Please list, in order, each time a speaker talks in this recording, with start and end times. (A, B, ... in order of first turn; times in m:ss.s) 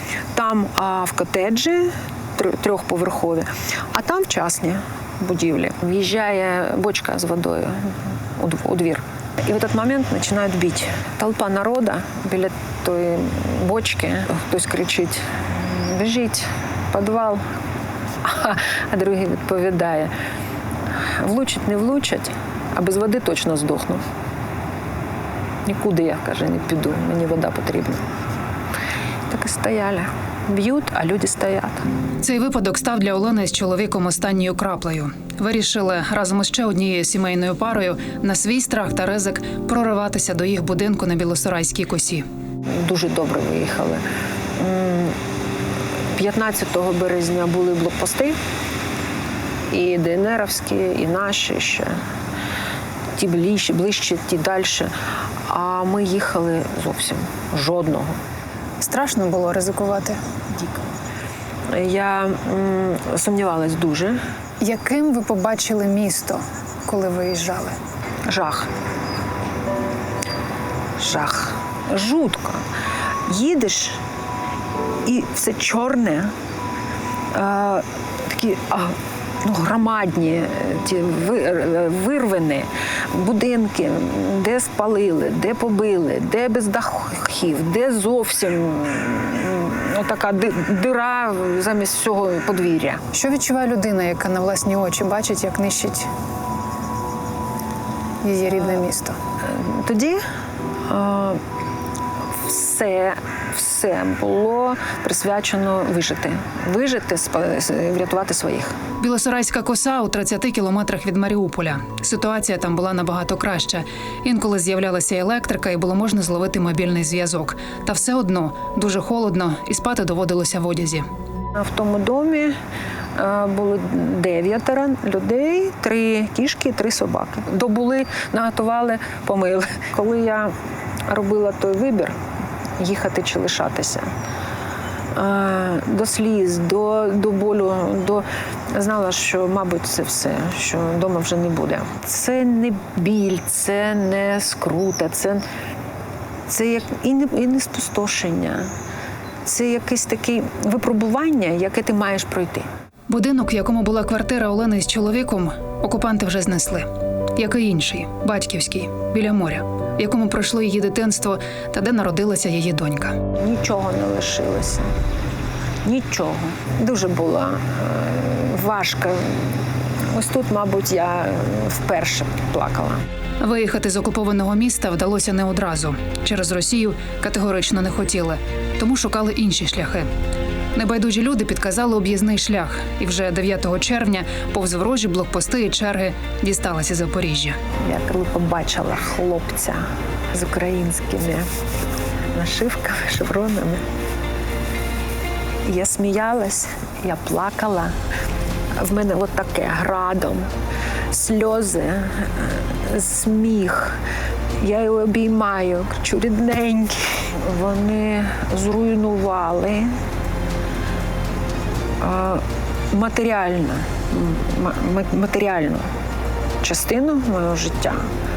0:00.3-0:17.4 A
0:18.2-0:20.1 A
0:21.2-0:24.0 A
0:25.6-0:28.0 A
0:29.3-0:31.9 A
0:32.2-0:42.2 B
0:42.7-0:44.0 A
0:44.6-0:45.2 A
0:46.1-0:48.4 A
0:49.7-0:52.0 A
0:53.2-0:54.9 A
0:55.5-0:58.1 A
0:58.8-1:00.2 C
1:01.7-1:04.2 A
1:04.6-1:07.8 C
1:08.3-1:08.7 A
1:11.0-1:12.6 A
1:13.3-1:14.0 A
1:15.0-1:16.3 A
1:17.3-1:33.0 A
1:33.1-1:36.1 C
1:38.2-1:39.2 C
1:39.5-1:40.2 A
1:40.9-1:41.4 A
1:42.4-1:48.8 A
1:49.0-2:01.0 B
2:01.5-2:02.5 A
2:03.2-2:10.5 A
2:11.1-2:12.2 A
2:12.8-2:14.1 A
2:15.1-2:25.4 A
2:26.5-2:28.7 A
2:29.4-2:32.7 A
2:33.1-2:36.8 B
2:37.4-2:43.1 B
2:43.4-2:44.9 A
2:45.8-2:53.0 A
2:53.4-3:00.1 B
3:00.8-3:07.6 B
3:07.8-3:11.5 A
3:12.3-3:13.8 A
3:15.6-3:17.9 A
3:18.8-3:20.5 A
3:21.1-3:24.0 A
3:24.6-3:29.9 A
3:32.0-3:35.9 A
3:36.6-3:38.1 A